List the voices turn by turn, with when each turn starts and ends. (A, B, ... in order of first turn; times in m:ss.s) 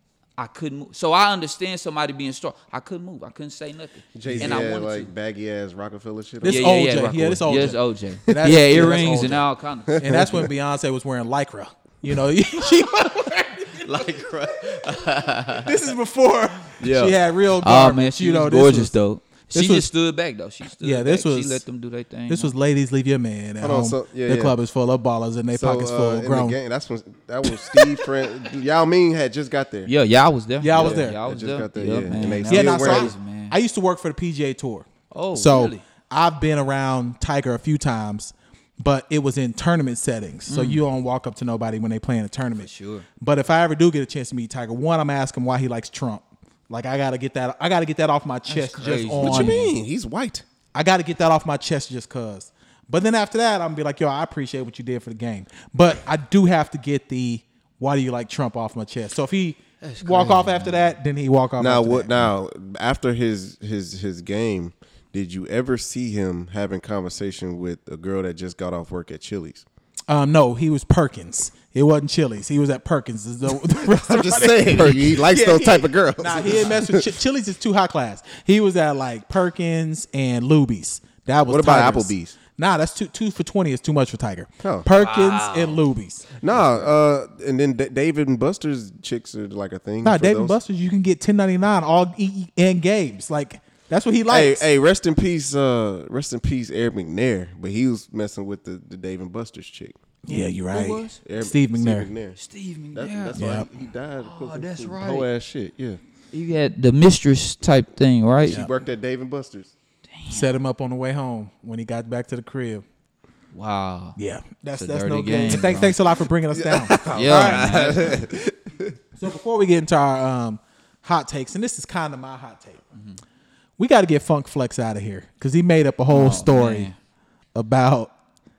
0:00.4-0:05.1 A
0:04.2-0:06.8 B
0:04.2-0:04.6 C
0:06.4-0:09.4 C
0:06.4-0:10.2 A
0:09.9-0:10.5 B
0:10.0-0:13.9 C
0:13.7-0:15.7 A
0:15.6-0:18.9 C
0:16.8-0:22.5 A
0:19.5-0:19.9 C
0:20.8-0:21.6 C
0:22.3-0:26.6 C
0:23.6-0:24.5 B
0:25.5-0:29.9 B
0:29.9-0:33.6 A
0:30.6-0:31.2 C
0:30.7-0:33.1 B
0:32.5-0:42.7 C
0:35.1-0:35.8 A
0:40.5-0:40.8 A
0:42.6-0:43.1 A
0:43.2-0:49.6 C
0:48.5-0:49.7 A
0:49.2-0:50.4 B
0:50.7-1:02.3 C
0:59.8-1:00.9 A
1:01.6-1:09.6 B
1:10.1-1:26.2 C
1:13.6-1:17.1 B
1:21.5-1:22.4 B
1:24.6-1:24.9 B
1:24.9-1:25.8 A
1:26.4-1:30.6 B
1:26.5-1:26.9 A
1:30.0-1:34.6 C
1:34.3-1:40.0 B
1:40.2-1:42.1 C
1:40.3-1:41.2 A
1:41.2-1:42.4 B
1:42.4-1:43.4 A
1:42.9-1:46.0 B
1:43.4-1:43.6 C
1:44.2-1:45.3 A
1:46.3-1:48.6 A
1:48.4-1:49.7 B
1:50.1-1:50.5 A
1:50.3-1:52.8 C
1:53.5-1:54.2 A
1:54.2-1:57.8 C
1:54.8-1:56.0 A
1:56.5-1:58.9 B
1:57.0-1:58.3 A
1:59.2-2:02.8 C
2:02.9-2:03.2 A
2:03.8-2:06.9 C
2:06.1-2:06.9 A
2:07.5-2:08.1 C